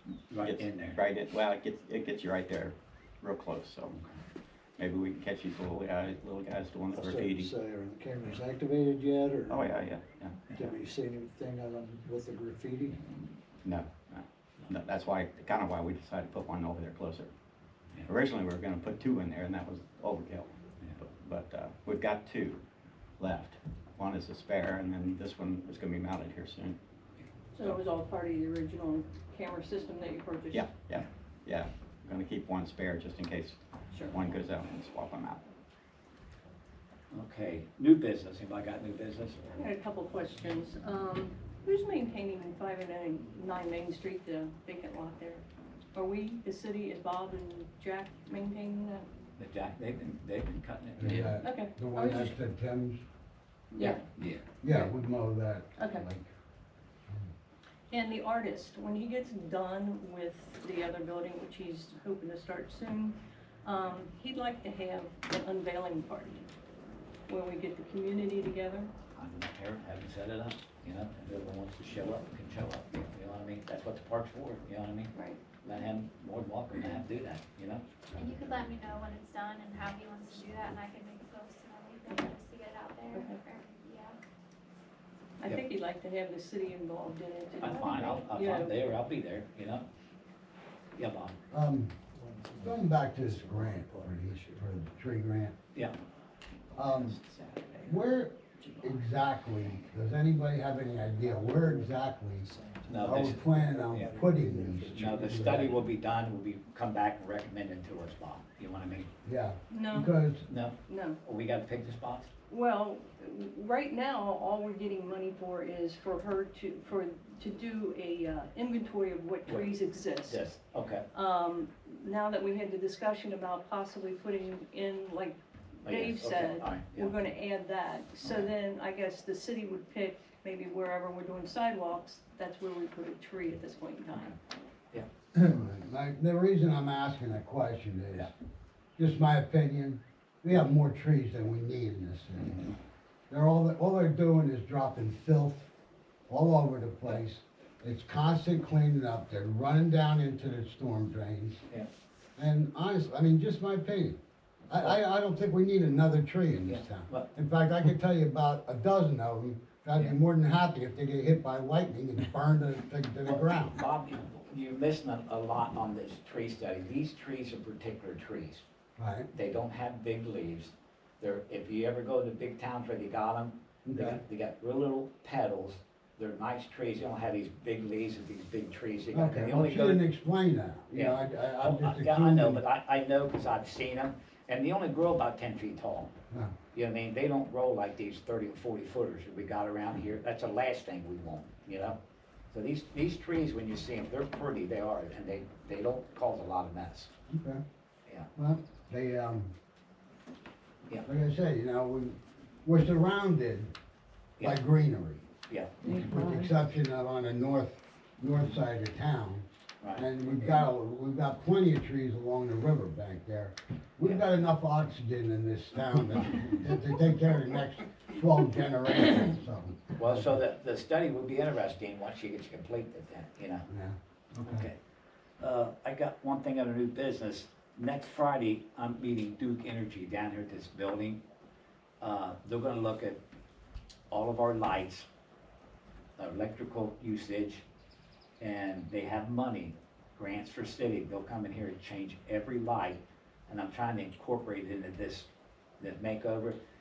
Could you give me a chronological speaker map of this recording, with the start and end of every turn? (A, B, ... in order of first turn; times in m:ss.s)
0:00.3-0:01.0 A
0:00.4-0:04.0 B
0:04.8-0:07.5 B
0:06.9-0:09.7 C
0:09.5-0:10.4 B
0:10.5-0:13.0 C
0:13.6-0:17.3 B
0:18.0-0:22.6 B
0:23.2-0:26.8 B
0:27.5-0:30.7 D
0:30.5-0:35.4 B
0:37.1-0:39.7 A
0:39.5-0:49.1 D
0:49.4-0:51.3 A
0:51.0-0:53.0 E
0:51.4-0:52.4 D
0:53.7-0:54.0 D
0:53.8-0:54.6 A
0:54.6-0:56.3 E
0:55.8-0:56.0 D
0:57.9-1:06.4 D
1:07.3-1:08.9 D
1:09.2-1:17.8 A
1:15.1-1:15.4 D
1:18.1-1:24.2 F
1:23.1-1:23.4 D
1:25.4-1:28.8 D
1:27.6-1:29.8 A
1:27.7-1:28.2 F
1:31.0-1:31.4 A
1:31.5-1:32.0 E
1:32.1-1:34.7 C
1:32.6-1:35.5 E
1:36.8-1:37.2 E
1:36.8-1:38.1 B
1:37.9-1:42.5 E
1:38.6-1:39.0 B
1:41.2-1:45.7 C
1:42.9-1:43.5 A
1:43.0-1:45.7 E
1:44.9-1:49.1 A
1:49.2-1:50.5 E
1:49.7-1:50.1 D
1:50.5-1:52.3 A
1:50.9-1:51.2 D
1:52.5-2:00.4 D
2:00.3-2:01.0 A
2:01.1-2:14.4 D
2:05.8-2:07.1 A
2:08.2-2:08.5 A
2:15.4-2:18.3 E
2:19.0-2:22.8 E
2:23.3-2:25.7 E
2:26.3-2:31.6 E
2:32.4-2:34.2 E
2:34.7-2:43.8 E
2:36.7-2:37.3 A
2:43.2-2:48.6 A
2:49.0-2:49.3 E
2:49.3-3:00.0 A
2:53.8-2:54.2 E
2:59.1-3:02.6 E
3:00.9-3:06.1 A
3:06.7-3:12.0 A
3:12.5-3:17.1 A
3:17.3-3:17.6 E
3:18.4-3:19.5 E
3:21.0-3:23.7 E
3:24.4-3:25.3 E
3:25.5-3:26.0 A
3:25.8-3:26.5 D
3:25.8-3:40.4 E
3:29.8-3:30.1 A
3:34.0-3:34.3 A
3:40.0-3:43.7 A
3:43.7-3:44.7 E
3:44.4-3:44.8 A
3:45.4-3:51.2 A
3:52.0-3:53.2 A
3:54.1-3:55.1 A
3:56.2-3:57.6 A
3:58.4-4:05.3 A
4:05.8-4:06.6 A